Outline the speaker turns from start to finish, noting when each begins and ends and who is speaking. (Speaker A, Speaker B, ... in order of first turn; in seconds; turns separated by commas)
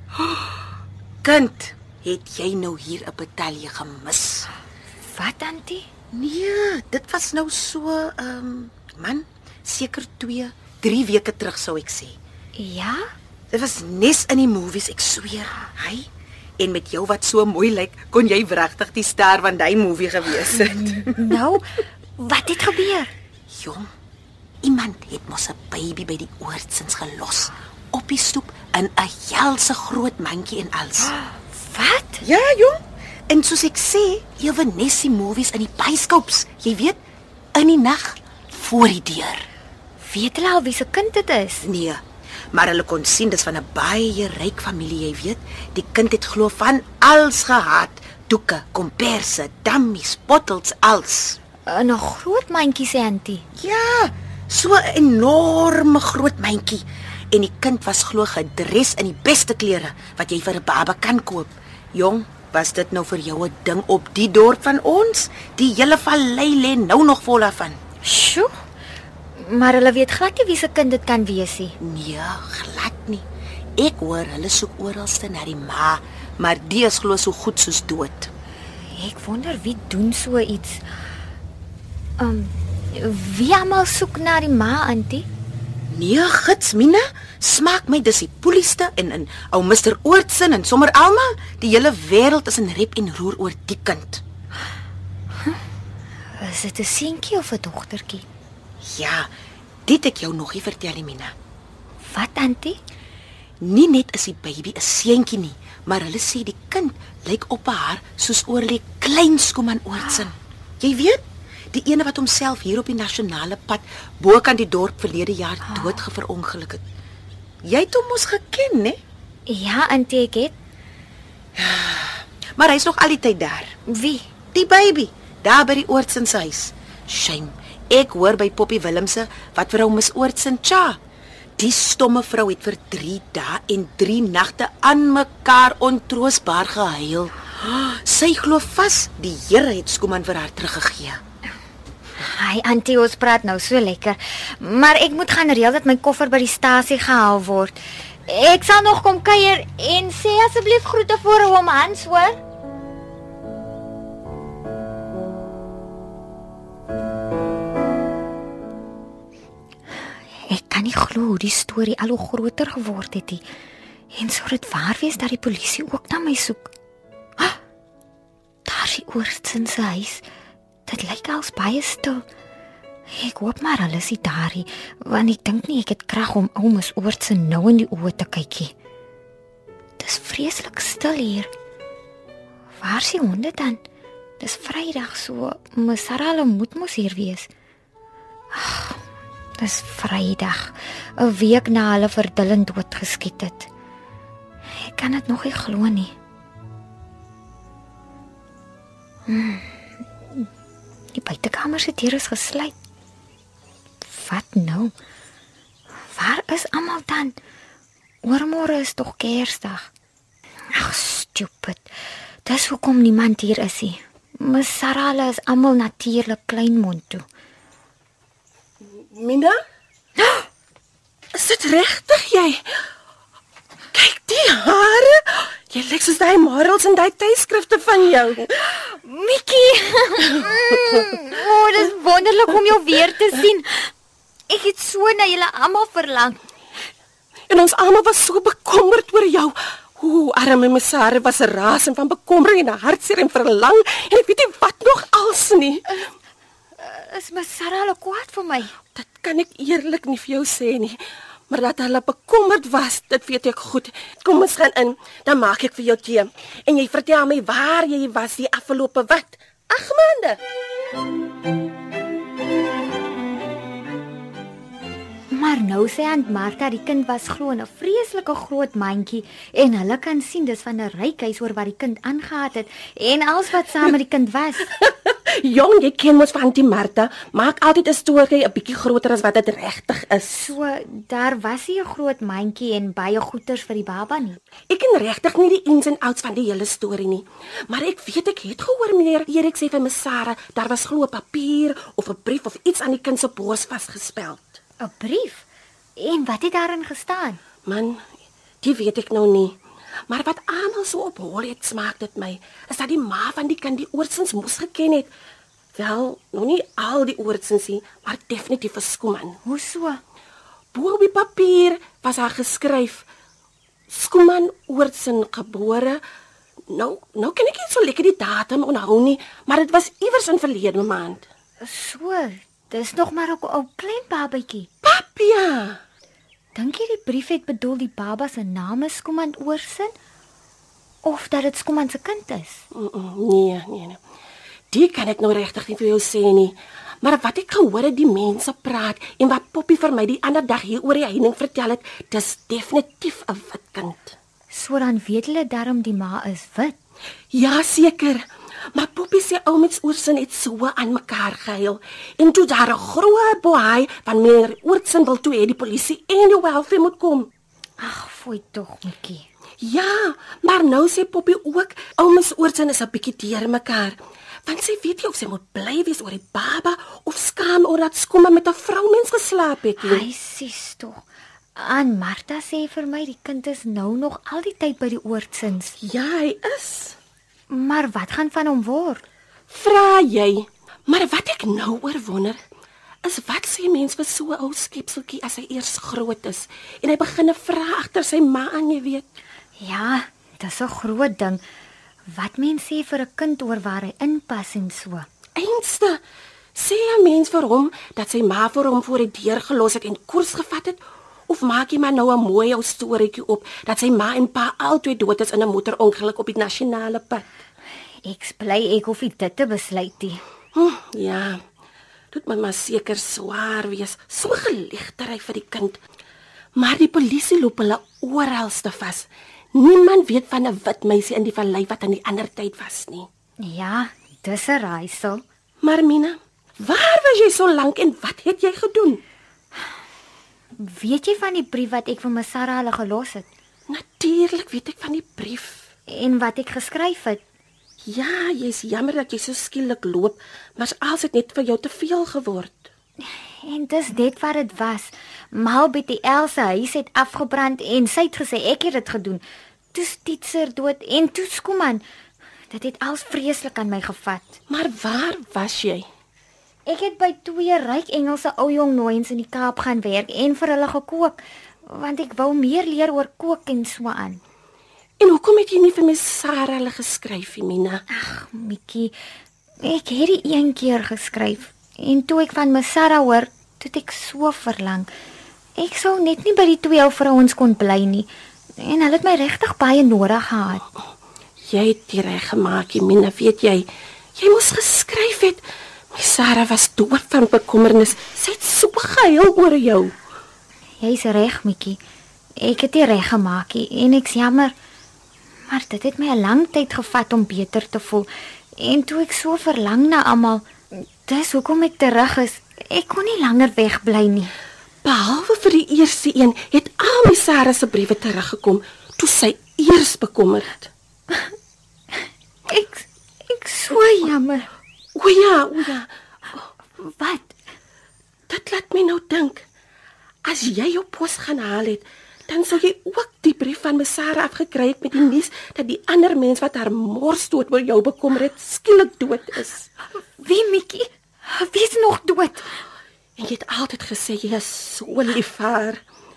Speaker A: 1.2-4.5, Speaker B: 5.0-5.9, Speaker A: 6.1-12.2, Speaker B: 12.5-13.1, Speaker A: 13.5-16.1, Speaker A: 16.6-21.2, Speaker B: 20.5-23.1, Speaker A: 23.5-23.9, Speaker A: 24.6-31.1, Speaker B: 31.0-32.2, Speaker A: 32.2-37.0, Speaker A: 37.5-39.5, Speaker B: 40.0-41.7, Speaker A: 41.6-51.4, Speaker B: 51.7-53.5, Speaker A: 53.5-67.8, Speaker B: 68.0-68.6, Speaker B: 69.3-71.8, Speaker A: 71.8-73.2, Speaker A: 73.8-78.3, Speaker B: 78.9-80.9, Speaker B: 82.2-85.3, Speaker A: 85.9-94.2, Speaker B: 96.4-98.2, Speaker A: 98.8-99.3, Speaker A: 99.8-101.3, Speaker B: 102.0-102.8, Speaker A: 103.6-116.8, Speaker A: 117.6-119.0, Speaker B: 119.5-120.5, Speaker A: 121.5-123.7, Speaker B: 123.8-124.3, Speaker A: 124.5-131.0, Speaker A: 131.6-141.2, Speaker B: 142.2-152.4, Speaker B: 160.3-163.4, Speaker B: 164.1-166.7, Speaker B: 168.6-170.2, Speaker B: 170.8-172.2, Speaker B: 173.1-178.7, Speaker B: 180.0-181.5, Speaker B: 182.8-183.8, Speaker B: 184.4-187.5, Speaker B: 188.5-189.0, Speaker B: 189.6-193.7, Speaker B: 194.8-196.1, Speaker B: 199.3-200.5, Speaker B: 201.1-202.7, Speaker B: 204.0-204.9, Speaker B: 206.0-207.3, Speaker B: 208.2-209.9, Speaker B: 210.7-217.2, Speaker C: 218.8-219.6, Speaker B: 220.2-220.5, Speaker C: 221.3-222.6, Speaker C: 223.9-228.5, Speaker B: 228.8-233.9, Speaker B: 234.5-236.4, Speaker C: 237.5-246.1, Speaker B: 246.8-248.8, Speaker C: 248.9-251.0, Speaker C: 251.5-260.4, Speaker B: 265.3-274.7, Speaker C: 274.8-280.5, Speaker B: 280.3-284.4, Speaker C: 284.7-294.6, Speaker B: 294.8-295.4, Speaker B: 296.0-297.4, Speaker C: 297.6-298.0, Speaker C: 298.6-299.6, Speaker C: 300.1-305.1, Speaker C: 305.7-309.4, Speaker B: 309.4-310.0, Speaker C: 310.7-313.0, Speaker C: 313.9-316.0, Speaker C: 316.7-321.2, Speaker B: 321.6-324.7, Speaker C: 324.8-325.8, Speaker B: 326.5-329.9, Speaker B: 331.0-332.6, Speaker C: 332.7-334.0, Speaker C: 334.7-344.1, Speaker B: 344.5-346.8, Speaker C: 347.3-348.2, Speaker C: 348.7-357.3, Speaker B: 357.8-359.2, Speaker C: 359.6-370.1, Speaker B: 369.8-375.7, Speaker C: 375.8-376.9, Speaker B: 377.5-379.0, Speaker C: 379.5-382.4, Speaker C: 383.0-389.0, Speaker B: 389.6-391.4, Speaker B: 392.1-395.1, Speaker C: 395.4-396.0, Speaker C: 396.5-407.3, Speaker B: 408.0-410.2, Speaker C: 410.5-411.4, Speaker C: 412.1-415.8, Speaker C: 416.6-423.1, Speaker B: 423.4-425.2, Speaker C: 425.6-429.0, Speaker B: 430.6-433.3, Speaker C: 433.7-435.7, Speaker B: 435.9-437.2, Speaker C: 437.9-442.7, Speaker B: 443.0-451.8, Speaker B: 452.5-454.4, Speaker C: 454.5-455.9, Speaker B: 456.6-464.2, Speaker C: 465.0-467.8, Speaker B: 467.9-468.9, Speaker B: 469.6-474.9, Speaker B: 475.6-480.6, Speaker C: 481.5-489.9, Speaker B: 490.8-491.8, Speaker B: 492.4-494.5, Speaker B: 495.5-504.3, Speaker C: 504.8-510.7, Speaker B: 512.5-514.5, Speaker C: 514.9-515.9, Speaker B: 516.8-517.3, Speaker C: 518.3-519.4, Speaker C: 520.2-529.7, Speaker B: 530.2-532.5, Speaker C: 533.2-535.8